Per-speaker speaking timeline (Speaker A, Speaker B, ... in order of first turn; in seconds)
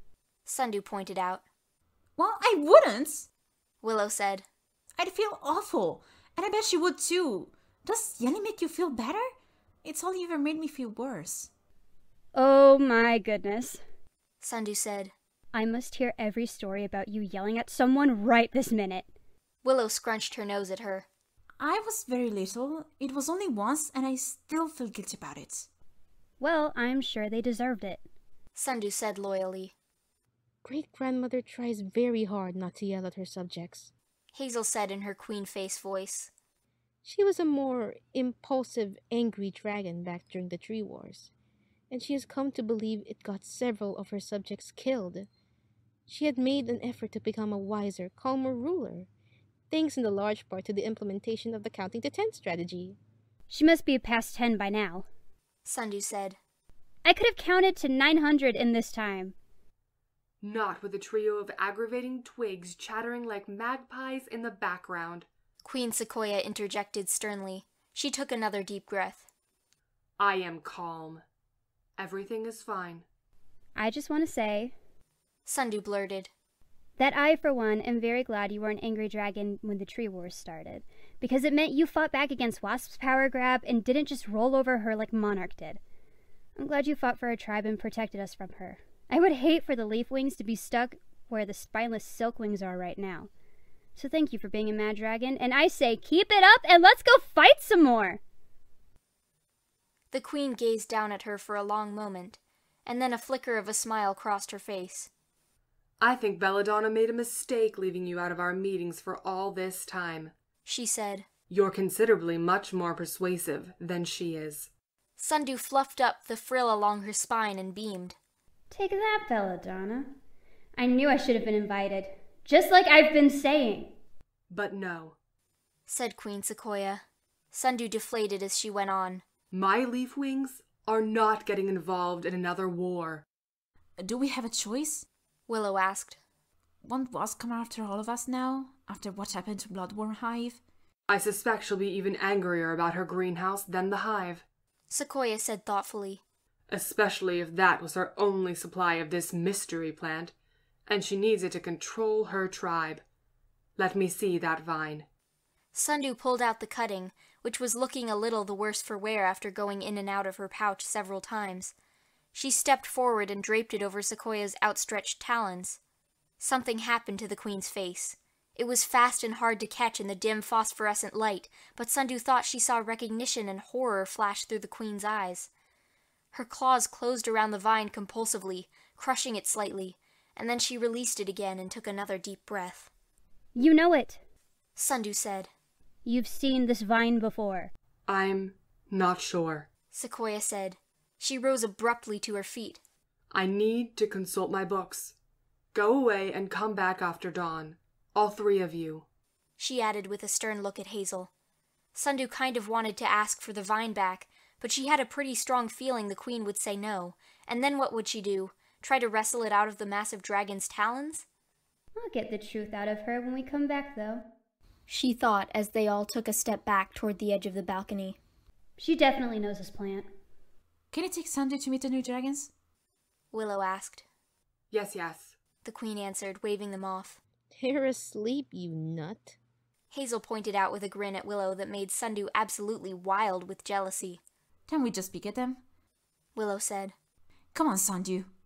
Speaker A: 0.5-1.4, 3.8-4.4, 14.4-15.1, 19.6-21.1, 28.5-29.7, 34.3-36.3, 55.6-56.4, 65.6-69.2, 75.5-76.3, 100.1-105.1, 110.7-111.2, 115.2-118.2, 125.9-129.2, 135.5-136.2, 144.9-146.2, 155.7-161.7, 162.3-165.8, 166.4-175.5, 176.3-182.9, 184.8-185.5, 189.9-192.8, 199.6-201.3, 201.9-211.2, 214.9-218.2, 223.3-224.0, 225.6-227.2, 229.9-234.2, 236.3-236.9
Speaker B: 2.2-3.3, 5.0-9.2, 9.8-11.5, 21.6-25.7, 134.0-135.1, 136.8-140.6, 220.9-222.5, 234.7-235.6, 237.5-238.3
Speaker C: 12.3-13.8, 15.5-19.1, 26.4-28.0, 53.5-55.0, 57.0-59.3, 73.8-74.7, 77.0-85.8, 86.5-93.3, 94.0-98.2, 118.7-120.1, 120.8-123.9, 183.5-184.2, 186.0-187.7, 211.9-214.2, 218.8-220.1
Speaker D: 30.6-33.9, 37.0-41.3, 41.9-45.3, 46.1-49.1, 49.7-53.0, 227.5-229.4
Speaker E: 60.4-65.3, 70.2-71.2, 72.0-73.0, 106.0-110.3, 111.5-114.7, 124.5-125.2, 129.5-133.2, 141.1-144.4, 146.7-150.3, 150.8-153.0, 153.8-155.1, 188.1-189.7, 193.3-195.1, 195.7-199.0, 224.7-225.3